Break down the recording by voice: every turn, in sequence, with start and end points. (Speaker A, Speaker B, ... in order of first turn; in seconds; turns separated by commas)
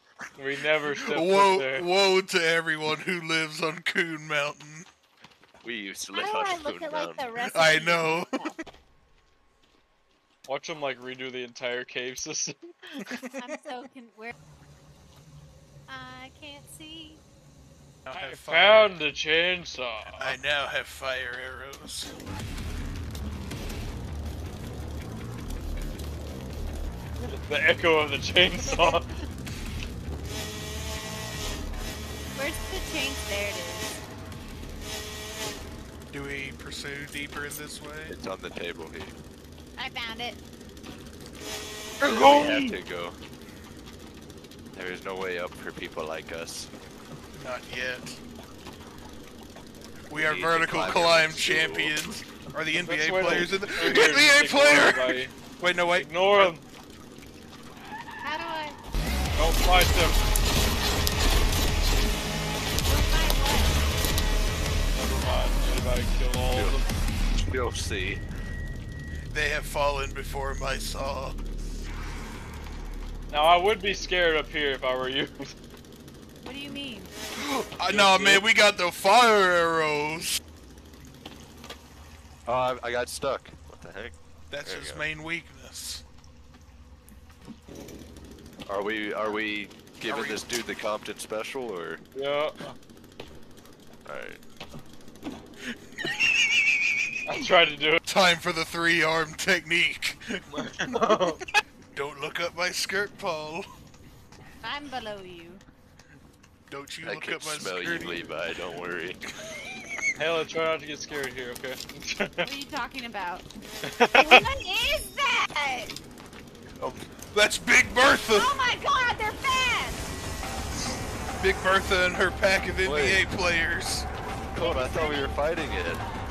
Speaker A: 0.4-1.9, Speaker B: 0.9-4.9, Speaker C: 5.6-7.3, Speaker D: 6.1-8.6, Speaker B: 7.5-8.5, Speaker A: 10.5-13.1, Speaker B: 13.0-13.5, Speaker D: 13.3-14.3, Speaker D: 15.9-17.2, Speaker B: 18.0-19.0, Speaker A: 18.1-20.4, Speaker B: 20.1-22.1, Speaker A: 27.2-29.1, Speaker D: 32.3-34.0, Speaker B: 36.1-38.1, Speaker C: 38.1-39.2, Speaker D: 39.8-40.4, Speaker A: 42.0-42.8, Speaker C: 42.0-43.2, Speaker C: 44.7-46.7, Speaker B: 47.3-48.2, Speaker B: 50.1-56.2, Speaker C: 50.1-52.0, Speaker A: 52.8-55.3, Speaker A: 55.9-56.6, Speaker D: 58.2-58.8, Speaker A: 59.4-60.2, Speaker D: 62.8-63.8, Speaker A: 64.9-66.8, Speaker C: 66.5-66.8, Speaker C: 67.4-68.2, Speaker B: 69.3-71.4, Speaker A: 73.3-75.5, Speaker D: 76.4-77.1, Speaker B: 77.3-80.4, Speaker A: 77.9-78.4, Speaker C: 82.5-85.0, Speaker B: 84.5-86.0, Speaker C: 88.7-92.0, Speaker B: 90.1-90.4, Speaker A: 92.1-92.5, Speaker C: 94.0-94.4, Speaker B: 95.7-96.3, Speaker A: 97.2-98.0, Speaker B: 98.0-103.7, Speaker A: 100.5-101.4, Speaker D: 104.6-105.6, Speaker B: 106.7-108.3, Speaker C: 107.0-109.2, Speaker A: 110.2-112.5, Speaker D: 112.4-113.5, Speaker A: 113.8-114.4, Speaker D: 114.1-115.9, Speaker B: 117.3-118.5, Speaker D: 118.3-120.0, Speaker B: 121.4-124.1, Speaker C: 122.8-123.2, Speaker C: 124.5-126.0, Speaker D: 124.5-125.4